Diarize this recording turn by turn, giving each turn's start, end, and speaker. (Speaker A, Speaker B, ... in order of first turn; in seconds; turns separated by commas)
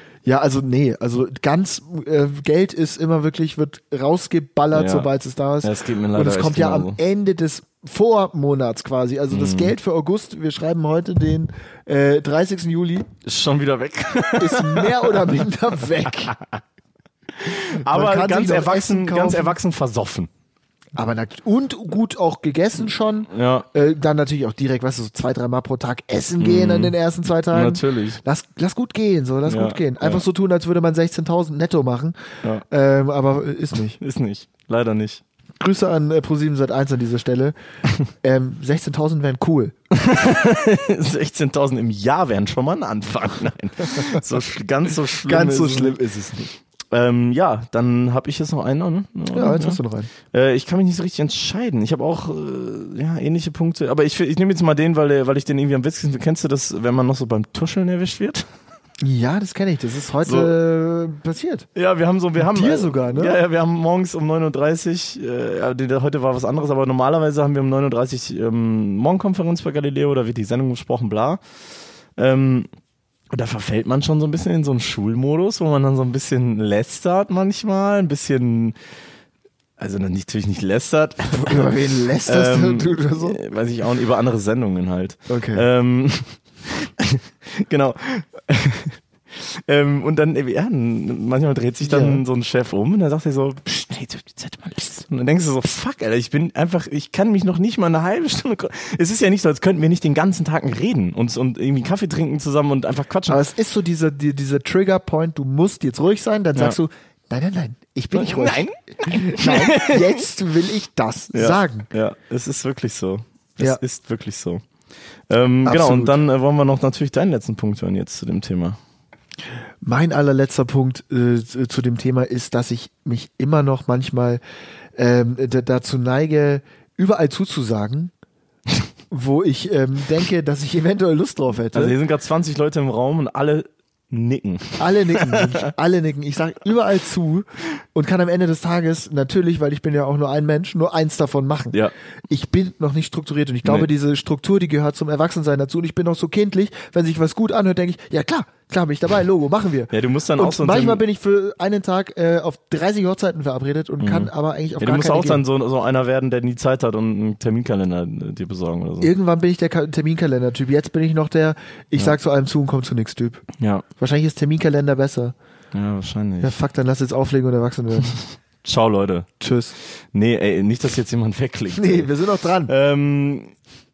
Speaker A: 0.2-13.1, Speaker B: 4.7-5.1, Speaker B: 5.6-7.0, Speaker B: 9.3-9.8, Speaker B: 13.2-15.4, Speaker A: 14.4-16.4, Speaker B: 16.1-16.6, Speaker B: 17.3-20.3, Speaker A: 17.8-19.6, Speaker A: 21.0-34.0, Speaker B: 23.3-23.7, Speaker B: 26.4-26.9, Speaker B: 27.5-28.2, Speaker B: 29.5-30.2, Speaker B: 34.0-35.2, Speaker A: 35.6-37.5, Speaker A: 38.1-39.8, Speaker B: 39.9-46.0, Speaker A: 45.2-46.5, Speaker B: 46.9-58.5, Speaker A: 49.3-50.1, Speaker A: 59.0-61.7, Speaker B: 60.2-60.5, Speaker B: 61.8-71.4, Speaker A: 62.4-63.4, Speaker B: 72.2-72.7, Speaker B: 73.3-78.8, Speaker B: 79.8-103.4, Speaker A: 81.3-83.4, Speaker A: 85.3-85.7, Speaker A: 91.8-92.2, Speaker A: 103.3-111.9, Speaker B: 108.1-110.3, Speaker B: 111.3-114.6, Speaker B: 115.3-118.8, Speaker A: 115.7-116.2, Speaker A: 119.8-124.4, Speaker A: 125.0-128.1, Speaker A: 129.1-132.0, Speaker B: 131.7-135.7, Speaker A: 134.8-141.8, Speaker A: 142.3-155.4, Speaker B: 143.6-143.9, Speaker B: 149.9-151.0, Speaker B: 154.0-159.1, Speaker A: 159.0-163.4, Speaker B: 163.6-163.8, Speaker A: 164.0-165.3, Speaker B: 165.7-166.5, Speaker A: 166.4-168.2, Speaker B: 168.6-169.3, Speaker A: 169.4-169.8, Speaker B: 170.1-172.1, Speaker A: 171.7-172.7, Speaker B: 172.7-173.5